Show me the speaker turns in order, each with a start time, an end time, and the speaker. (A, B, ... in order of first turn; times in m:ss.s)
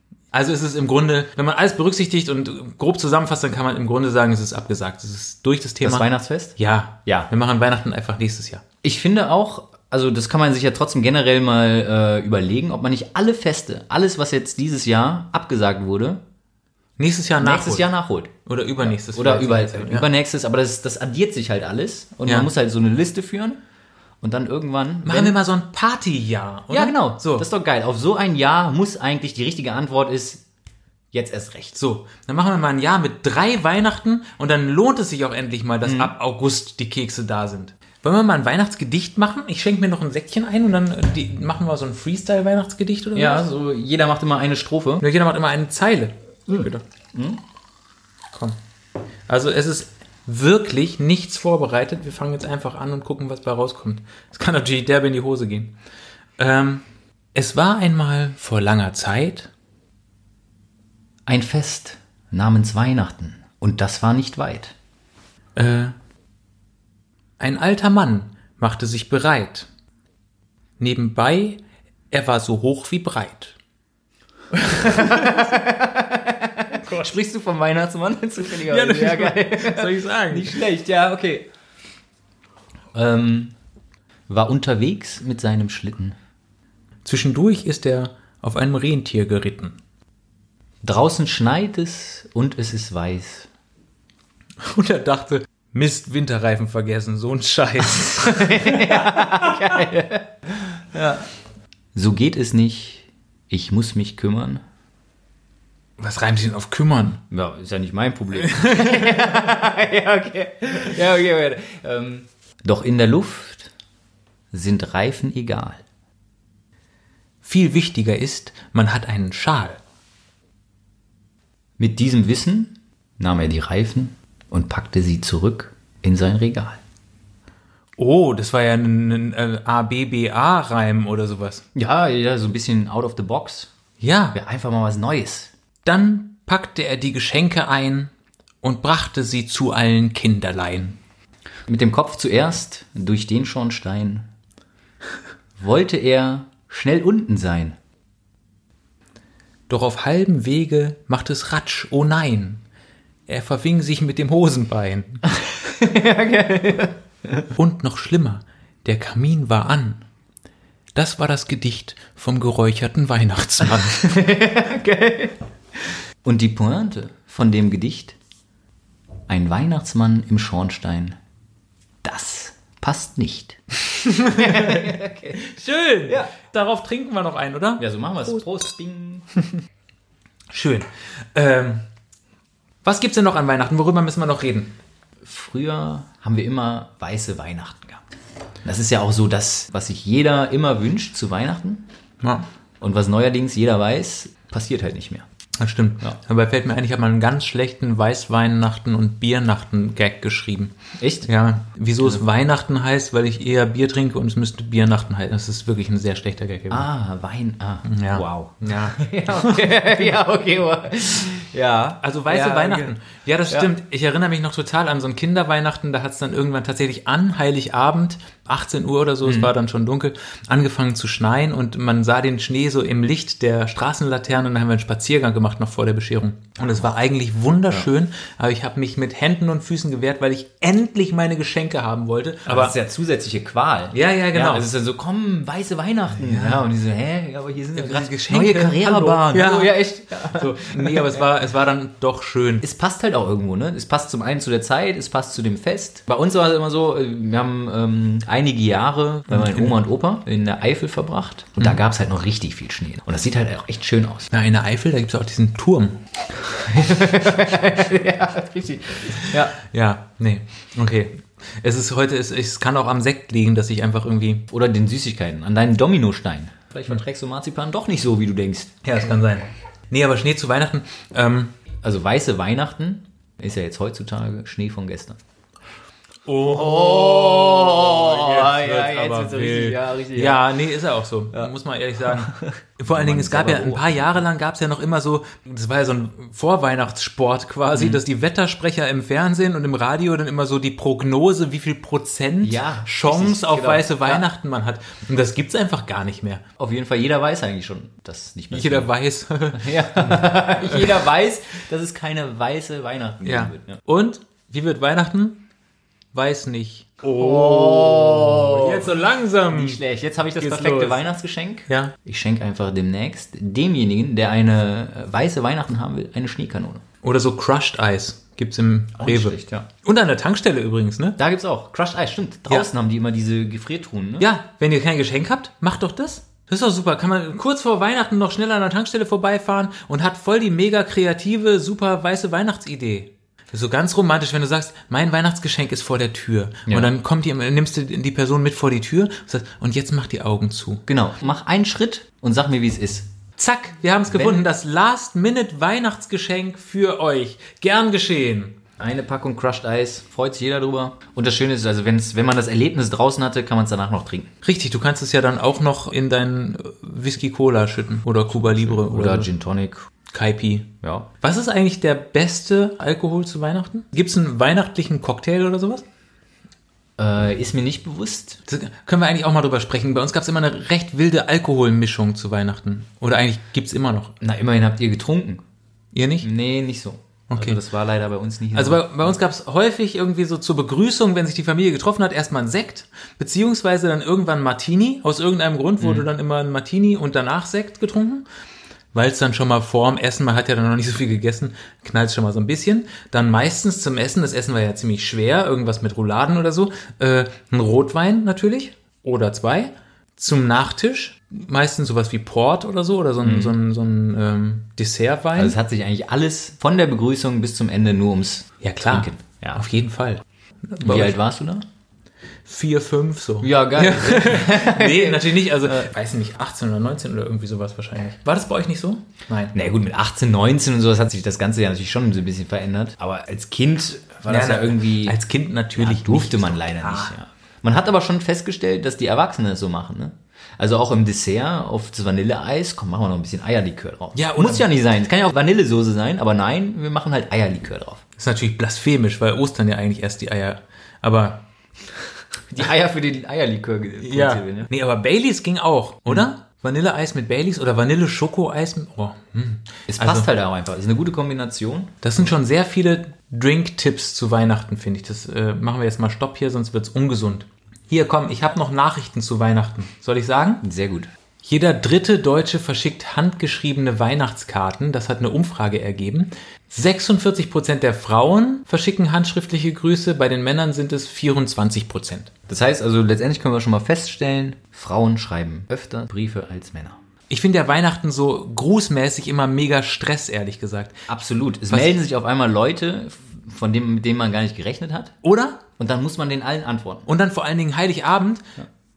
0:00.3-0:08.6 A
0:05.8-0:07.3 B
0:08.8-0:16.2 B
0:17.0-0:17.9 A
0:17.4-0:23.6 B
0:18.4-0:20.1 A
0:24.2-0:25.4 B
0:25.0-0:27.4 A
0:26.7-0:30.4 B
0:31.1-0:31.8 B
0:31.7-0:43.4 A
0:35.8-0:36.1 B
0:43.1-0:45.0 B
0:45.0-0:46.8 A
0:46.5-0:47.4 B
0:48.3-0:48.6 A
0:49.3-0:55.7 A
0:56.4-0:56.8 A
0:57.3-0:59.5 A
1:01.2-1:04.7 B
1:05.6-1:05.9 A
1:07.4-1:09.7 A
1:10.8-1:13.6 A
1:14.6-1:15.4 A
1:14.7-1:21.5 B
1:16.8-1:17.1 A
1:18.6-1:20.6 A
1:22.9-1:23.5 B
1:24.3-1:26.2 B
1:27.0-1:29.8 A
1:30.8-1:33.5 B
1:34.6-1:39.6 A
1:38.0-1:41.3 B
1:41.9-1:44.6 B
1:46.0-1:47.2 A
1:47.3-1:53.7 B
1:48.4-1:49.2 A
1:54.5-1:55.8 B
1:57.4-1:59.8 A
2:01.8-2:06.8 B
2:08.0-2:11.6 A
2:11.7-2:13.7 B
2:14.0-2:14.4 A
2:14.3-2:15.5 B
2:15.8-2:18.1 A
2:18.6-2:21.0 A
2:21.7-2:24.3 B
2:25.6-2:27.8 B
2:29.7-2:32.6 A
2:33.3-2:35.2 A
2:35.4-2:37.5 B
2:37.5-2:40.0 A
2:40.9-2:44.1 A
2:43.8-2:45.4 B
2:46.2-2:48.2 B
2:49.3-2:51.2 B
2:52.0-2:53.6 B
2:53.8-2:57.8 A
2:54.3-2:55.5 B
2:56.1-2:56.3 B
2:57.8-2:59.3 B
3:00.5-3:01.8 A
3:02.8-3:04.7 A
3:05.2-3:08.0 B
3:08.6-3:11.9 B
3:12.8-3:15.2 B
3:15.6-3:20.7 A
3:21.0-3:21.3 B
3:21.2-3:26.9 A
3:26.7-3:32.9 B
3:27.8-3:29.8 A
3:32.0-3:52.7 A
3:39.2-3:39.5 B
3:52.5-4:01.2 B
3:53.9-3:54.7 A
3:56.2-3:56.6 A
3:57.7-4:02.6 A
4:02.6-4:14.3 B
4:09.3-4:09.7 A
4:14.3-4:16.0 A
4:16.5-4:19.5 B
4:19.2-4:24.5 A
4:24.5-4:28.7 B
4:28.8-4:31.5 A
4:31.8-4:35.2 B
4:36.2-4:56.4 A
4:36.4-4:40.5 B
4:41.3-4:44.2 B
4:47.7-4:48.0 B
4:52.4-4:54.2 B
4:56.6-4:58.9 B
4:58.5-5:01.0 A
4:59.5-5:03.8 B
5:03.2-5:05.4 A
5:06.1-5:09.8 A
5:07.1-5:09.0 B
5:09.5-5:16.8 B
5:10.4-5:11.0 A
5:11.7-5:11.9 A
5:17.0-5:21.2 A
5:19.0-5:19.7 B
5:21.2-5:24.3 B
5:24.2-5:40.8 A
5:36.7-5:36.9 B
5:40.9-5:43.1 B
5:43.4-5:48.6 A
5:44.1-5:44.4 B
5:48.8-5:54.3 B
5:54.4-5:59.3 A
5:58.4-5:59.9 B
6:00.1-6:05.8 A
6:00.8-6:01.1 B
6:07.0-6:08.4 B
6:08.5-6:14.1 A
6:14.2-6:15.4 B
6:15.9-6:16.3 A
6:16.2-6:19.2 B
6:17.3-6:17.6 A
6:18.5-6:28.2 A
6:25.8-6:26.1 B
6:28.9-6:45.6 A
6:43.2-6:43.6 B
6:45.4-6:49.6 B
6:48.6-6:51.2 A
6:50.8-6:51.6 B
6:52.4-6:59.5 A
6:53.4-6:55.9 B
6:59.5-7:05.2 B
7:04.3-7:07.1 A
7:05.8-7:18.0 B
7:14.1-7:14.7 A
7:18.2-7:21.4 A
7:22.5-7:24.7 B
7:24.0-7:30.3 A
7:29.9-7:32.3 B
7:32.0-7:40.6 A
7:40.6-7:41.1 B
7:41.4-7:52.3 A
7:52.5-7:57.0 B
7:57.3-8:01.0 A
8:01.1-8:05.1 B
8:01.7-8:02.0 A
8:05.2-8:05.6 A
8:05.8-8:07.1 B
8:07.1-8:08.4 A